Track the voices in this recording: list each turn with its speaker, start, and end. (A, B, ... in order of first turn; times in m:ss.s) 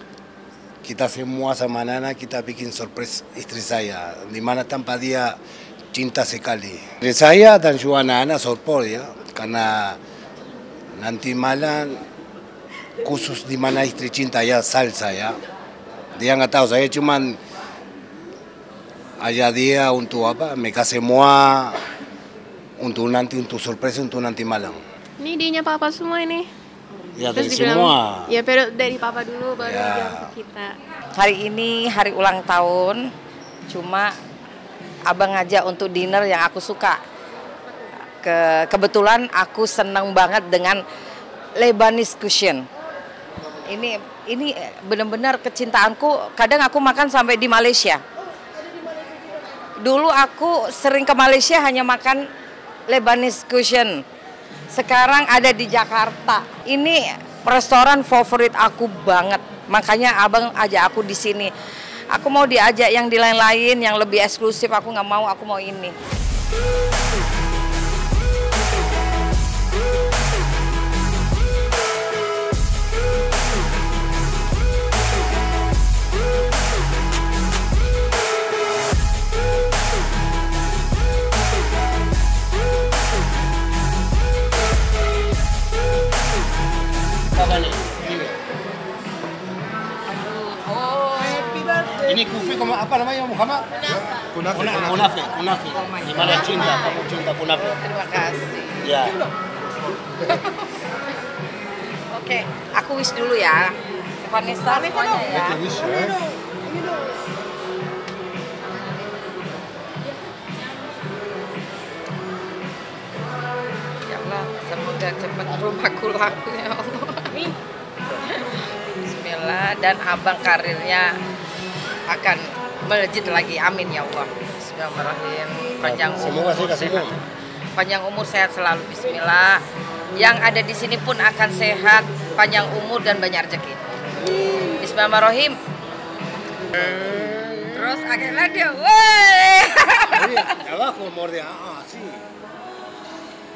0:00.8-0:05.4 A
0:05.9-0:10.0 A
0:11.0-0:12.0 A
0:13.0-0:15.4 A
0:16.2-0:17.4 A
0:19.2-0:21.8 A
0:22.8-0:24.8 A
0:25.2-0:26.5 B
0:27.2-0:28.3 A
0:27.3-0:30.8 B
0:29.6-0:30.3 A
0:31.2-0:33.0 C
0:33.7-0:34.1 C
0:35.1-0:37.0 C
0:38.2-0:40.8 C
0:41.6-0:42.7 C
0:43.7-0:48.0 C
0:49.8-0:52.2 C
0:52.9-0:54.0 C
0:54.7-1:01.5 C
1:02.1-1:06.0 C
1:27.3-1:28.4 A
1:30.1-1:32.0 C
1:32.0-1:37.8 A
1:35.8-1:39.0 C
1:38.8-1:39.2 A
1:40.2-1:40.7 C
1:42.1-1:45.8 C
1:45.4-1:46.2 A
1:54.1-1:57.6 C
1:58.3-2:01.2 C
2:02.1-2:07.2 C
2:05.8-2:07.2 A
2:07.8-2:09.6 C
2:10.2-2:13.8 C
2:14.6-2:15.6 C
2:16.7-2:20.5 C
2:20.1-2:22.2 A